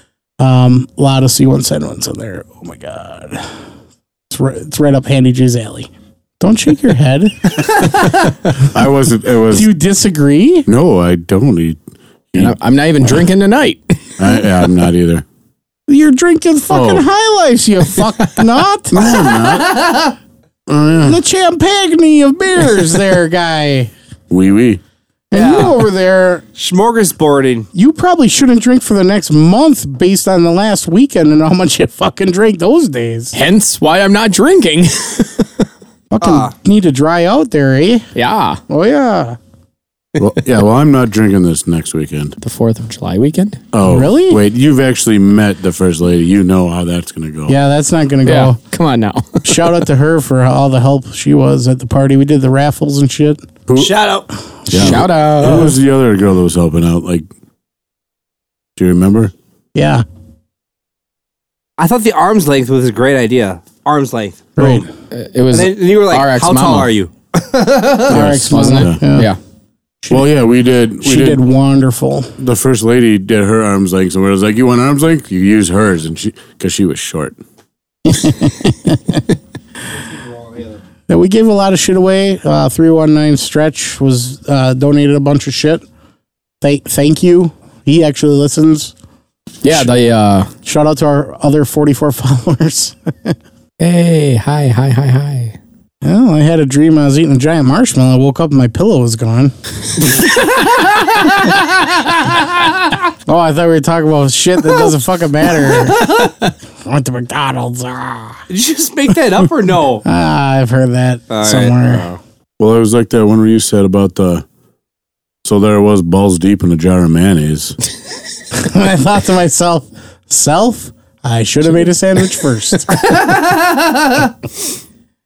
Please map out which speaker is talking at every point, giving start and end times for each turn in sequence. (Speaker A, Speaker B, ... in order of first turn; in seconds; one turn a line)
Speaker A: 0.4-3.5
Speaker A: 4.3-7.9
Speaker B: 8.6-9.7
Speaker A: 9.5-10.7
Speaker B: 10.7-11.8
Speaker B: 12.3-13.3
Speaker C: 12.4-14.4
Speaker B: 14.2-15.2
Speaker A: 15.9-19.0
Speaker B: 16.7-17.1
Speaker B: 18.9-19.8
Speaker D: 19.0-20.1
Speaker B: 20.7-21.2
Speaker A: 21.0-23.9
Speaker B: 24.3-24.8
Speaker A: 25.3-26.4
Speaker D: 25.3-25.9
Speaker D: 26.6-27.7
Speaker A: 27.8-33.4
Speaker C: 33.3-35.6
Speaker A: 36.1-38.1
Speaker D: 36.2-36.5
Speaker C: 38.1-38.6
Speaker A: 38.7-39.4
Speaker B: 40.2-42.4
Speaker C: 42.4-43.6
Speaker B: 43.7-47.6
Speaker A: 43.8-44.4
Speaker A: 47.5-48.6
Speaker C: 48.3-49.8
Speaker A: 49.4-53.5
Speaker B: 53.7-53.9
Speaker D: 53.8-54.3
Speaker B: 54.7-57.3
Speaker C: 54.7-55.8
Speaker B: 58.8-59.3
Speaker A: 59.8-60.0
Speaker D: 61.8-64.8
Speaker A: 64.6-64.9
Speaker C: 65.1-66.9
Speaker D: 65.5-68.2
Speaker A: 68.1-69.3
Speaker B: 68.1-69.0
Speaker C: 68.2-69.4
Speaker A: 70.0-70.3
Speaker B: 70.1-71.4
Speaker A: 71.0-72.3
Speaker B: 72.4-77.4
Speaker A: 78.1-79.2
Speaker D: 80.1-80.8
Speaker A: 81.1-85.8
Speaker A: 86.6-88.9
Speaker C: 89.6-90.5
Speaker A: 89.7-89.9
Speaker A: 90.6-93.3
Speaker C: 93.8-95.6
Speaker A: 96.0-99.5
Speaker D: 100.1-101.7
Speaker A: 103.3-106.2
Speaker D: 105.7-106.3
Speaker A: 106.8-108.4
Speaker D: 108.5-110.0
Speaker A: 110.0-112.1
Speaker D: 111.3-112.2
Speaker B: 112.6-114.5
Speaker B: 115.4-117.8
Speaker A: 118.5-123.1
Speaker D: 123.0-124.3